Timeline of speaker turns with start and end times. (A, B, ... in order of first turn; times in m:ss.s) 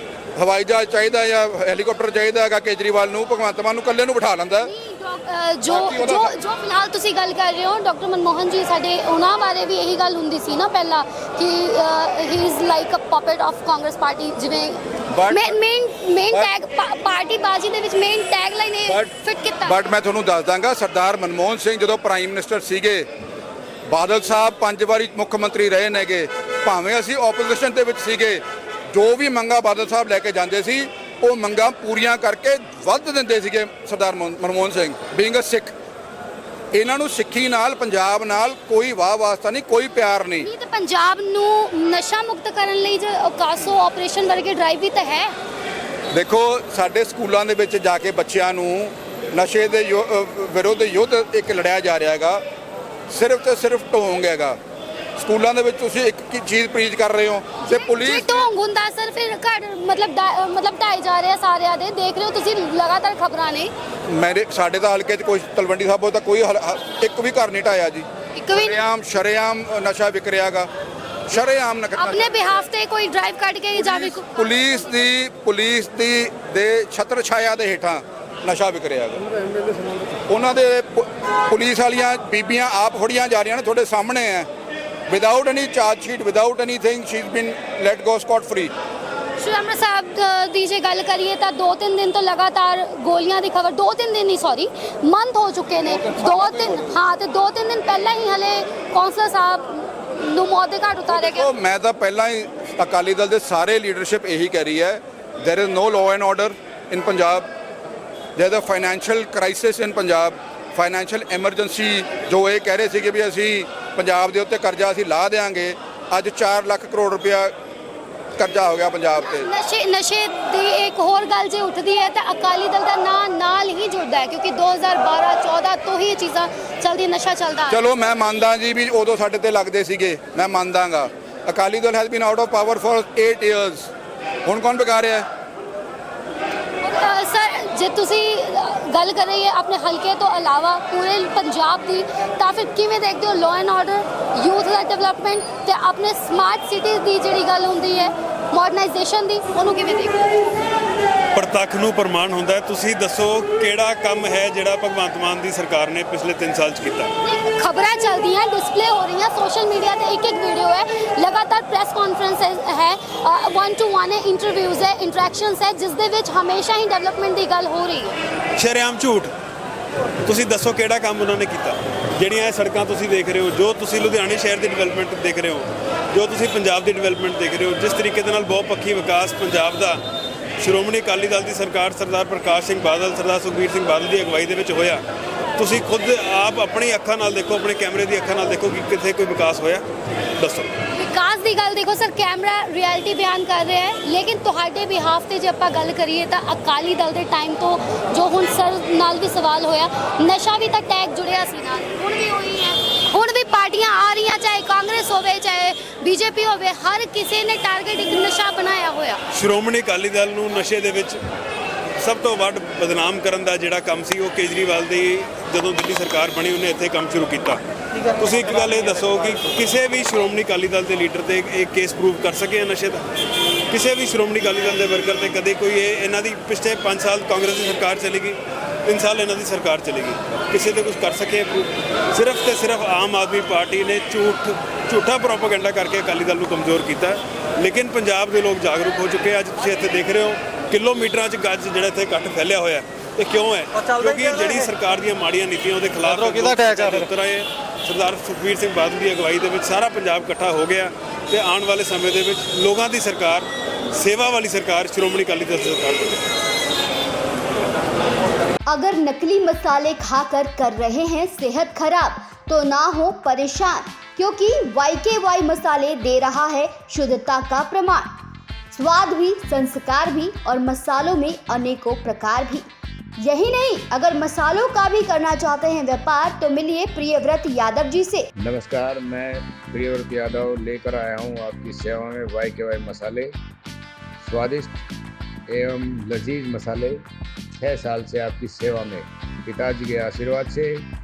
0:00.4-0:04.7 A
0:04.6-0:19.8 B
0:05.7-0:06.3 A
0:15.1-0:15.5 A
0:19.6-0:23.1 A
0:23.9-0:35.7 A
0:36.7-0:40.5 A
0:40.4-0:45.3 B
0:46.1-0:52.4 A
0:53.1-0:54.6 A
0:55.2-0:58.4 A
0:57.6-1:03.7 B
1:04.1-1:10.7 A
1:08.4-1:08.8 B
1:11.3-1:12.6 A
1:12.0-1:14.8 B
1:13.7-1:19.2 A
1:20.3-1:24.5 A
1:25.1-1:28.7 A
1:29.4-1:41.5 B
1:36.0-1:36.9 A
1:41.1-1:47.5 A
1:48.4-1:57.5 A
1:58.4-1:59.5 A
1:59.2-2:07.8 B
2:07.7-2:13.9 A
2:14.4-2:15.2 A
2:16.8-2:30.3 B
2:31.3-2:37.1 C
2:37.2-2:48.2 B
2:48.6-2:49.3 C
2:50.2-3:00.0 C
3:00.6-3:05.0 C
3:05.6-3:09.8 C
3:10.4-3:10.7 C
3:10.9-3:29.2 B
3:29.3-3:31.2 C
3:32.0-3:37.6 C
3:38.1-3:43.0 C
3:43.7-4:16.2 C
4:18.7-4:28.1 D
4:28.7-4:32.6 D
4:33.2-4:38.3 D
4:38.4-4:43.3 E
4:44.2-4:44.8 E
4:45.5-4:47.0 E
4:47.6-4:50.8 E